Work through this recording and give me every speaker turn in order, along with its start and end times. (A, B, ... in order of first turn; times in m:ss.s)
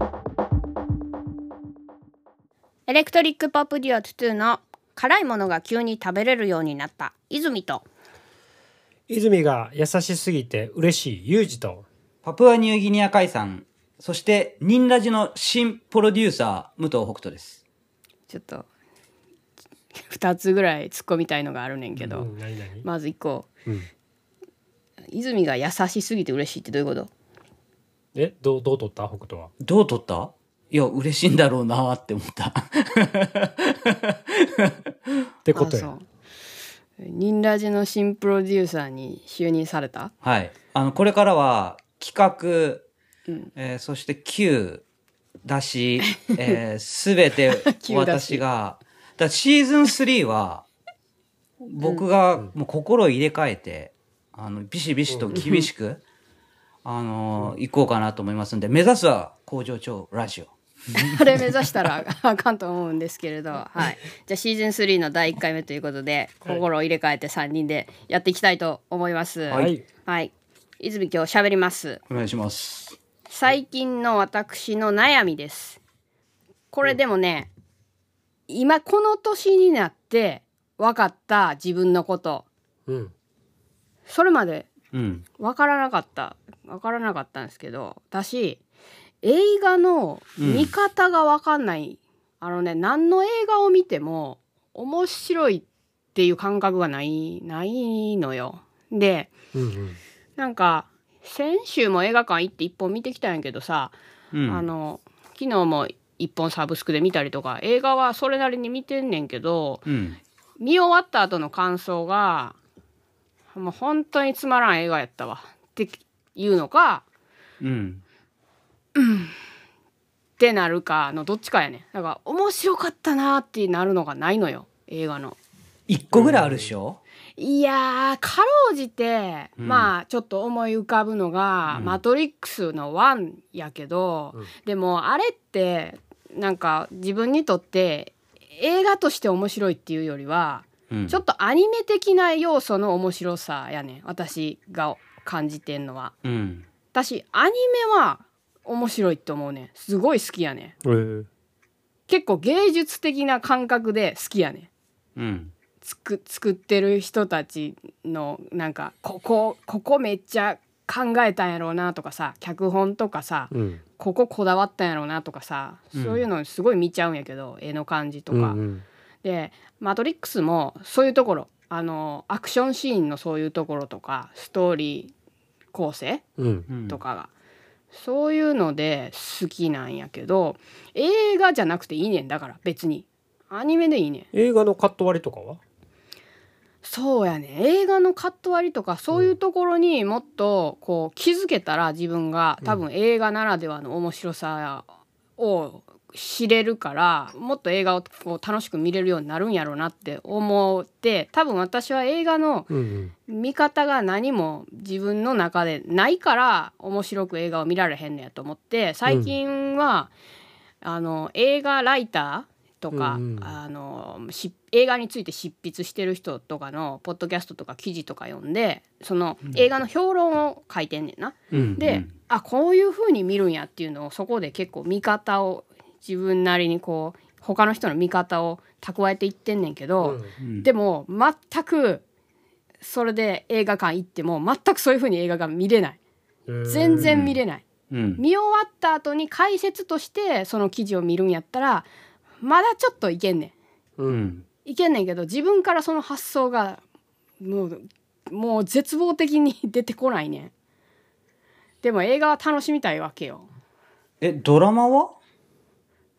0:02.9-0:07.8 A
0:09.1-0:11.8 B
0:12.2-0:17.6 C
0:18.3-0:18.7 A
0:19.9-0:22.3 A
0:22.0-0:22.9 B
0:22.8-0:23.5 A
0:25.1-0:27.1 A
0:28.1-0:29.5 B
0:29.6-0:34.9 C
0:35.4-0:35.9 B
0:35.5-0:36.0 A
0:37.0-0:40.1 A
0:40.2-0:42.9 C
0:43.6-0:44.8 C
0:45.4-0:50.6 C
0:46.1-0:46.5 A
0:47.6-0:48.4 A
0:51.6-0:56.0 C
0:51.8-0:52.1 A
0:55.1-0:55.5 B
0:55.3-0:55.7 A
0:56.8-1:01.4 C
1:00.9-1:12.0 A
1:09.5-1:09.8 B
1:12.1-1:13.0 C
1:13.3-1:15.8 A
1:16.7-1:17.5 A
1:18.5-1:22.4 A
1:22.9-1:23.1 B
1:24.1-1:24.7 A
1:24.9-1:25.2 C
1:25.4-1:28.6 A
1:29.2-1:39.3 A
1:30.4-1:30.7 C
1:39.5-1:40.0 B
1:40.4-1:44.0 A
1:44.3-1:44.7 C
1:44.5-1:49.9 A
1:49.8-1:50.2 C
1:50.6-1:52.6 A
1:53.5-1:57.0 A
1:57.6-1:58.0 C
1:58.9-1:59.3 A
2:00.4-2:05.4 A
2:05.9-2:07.0 C
2:06.1-2:06.7 B
2:07.4-2:26.1 A
2:09.6-2:09.9 C
2:11.7-2:12.0 C
2:20.9-2:21.2 C
2:26.2-2:26.6 C
2:26.9-2:30.7 A
2:30.8-2:31.3 B
2:32.1-2:34.7 A
2:35.2-2:35.5 C
2:35.8-2:48.6 A
2:43.5-2:43.8 B
2:45.9-2:46.2 C
2:48.3-2:48.8 B
2:49.2-2:55.1 A
2:55.7-2:56.2 A
2:56.4-2:56.7 B
2:56.7-2:57.0 C
2:56.8-2:57.3 A
2:57.9-3:04.3 A
3:04.3-3:05.6 B
3:06.8-3:22.7 A
3:22.7-3:23.1 B
3:23.3-3:30.1 A
3:29.0-3:29.3 B
3:30.8-3:52.0 A
3:32.9-3:33.6 B
3:41.5-3:41.8 B
3:41.5-3:42.1 C
3:50.0-3:50.3 B
3:50.4-3:50.7 C
3:52.8-3:56.0 A
3:56.5-3:57.2 B
3:56.6-3:57.6 A
3:57.0-3:57.4 C
3:57.9-3:58.2 C
3:58.2-4:01.9 A
4:02.4-4:03.5 A
4:04.0-4:04.3 B
4:04.1-4:04.4 C
4:04.6-4:06.8 A
4:07.4-4:10.5 A
4:11.8-4:13.5 A
4:14.2-4:15.2 C